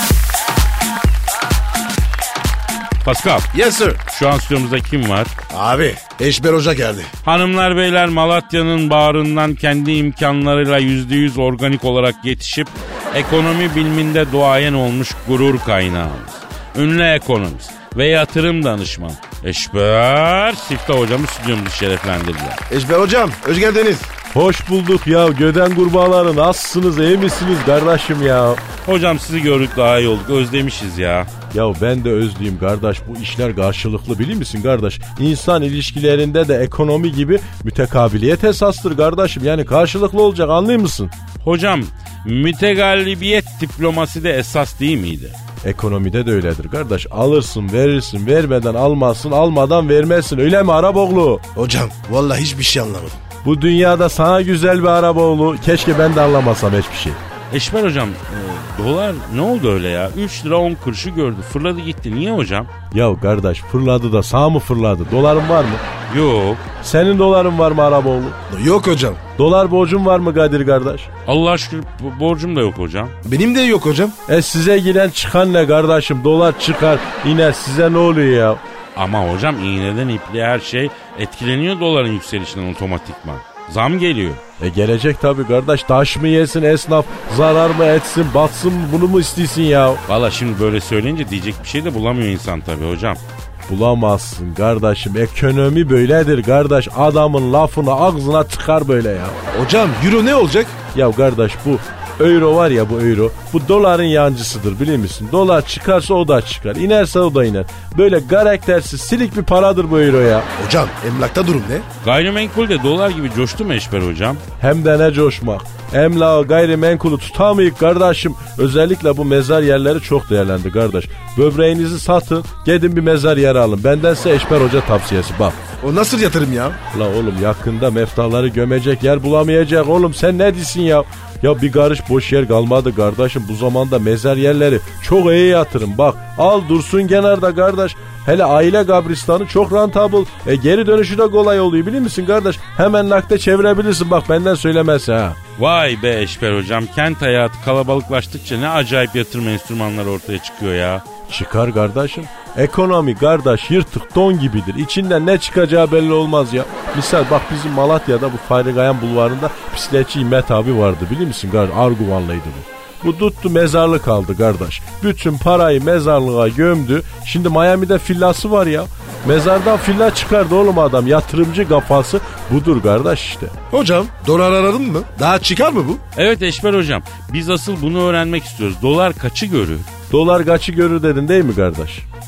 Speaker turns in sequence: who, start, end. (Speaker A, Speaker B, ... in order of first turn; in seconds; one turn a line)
Speaker A: 3.0-3.5
Speaker B: 3.5-4.0
Speaker A: 4.1-5.3
Speaker B: 5.5-7.1
Speaker A: 7.2-22.6
Speaker B: 22.7-24.1
Speaker C: 24.3-28.6
Speaker A: 28.9-31.3
Speaker C: 31.5-41.1
Speaker A: 41.4-45.4
Speaker C: 45.6-51.4
Speaker B: 51.6-53.2
Speaker C: 53.4-57.2
Speaker A: 57.5-62.7
Speaker C: 62.9-65.8
Speaker A: 66.1-66.6
Speaker C: 66.8-68.4
Speaker B: 68.5-69.2
Speaker C: 69.4-71.1
Speaker A: 71.3-73.2
Speaker B: 73.2-74.2
Speaker C: 74.3-78.6
Speaker A: 79.0-84.4
Speaker C: 84.6-90.0
Speaker A: 90.1-93.2
Speaker C: 93.7-99.4
Speaker B: 99.5-100.8
Speaker C: 100.9-110.5
Speaker B: 110.6-111.8
Speaker A: 112.0-114.4
Speaker C: 114.6-125.6
Speaker B: 125.8-126.8
Speaker C: 126.9-145.4
Speaker A: 145.6-151.0
Speaker C: 151.3-173.5
Speaker B: 173.7-176.0
Speaker A: 176.2-179.9
Speaker C: 180.1-182.1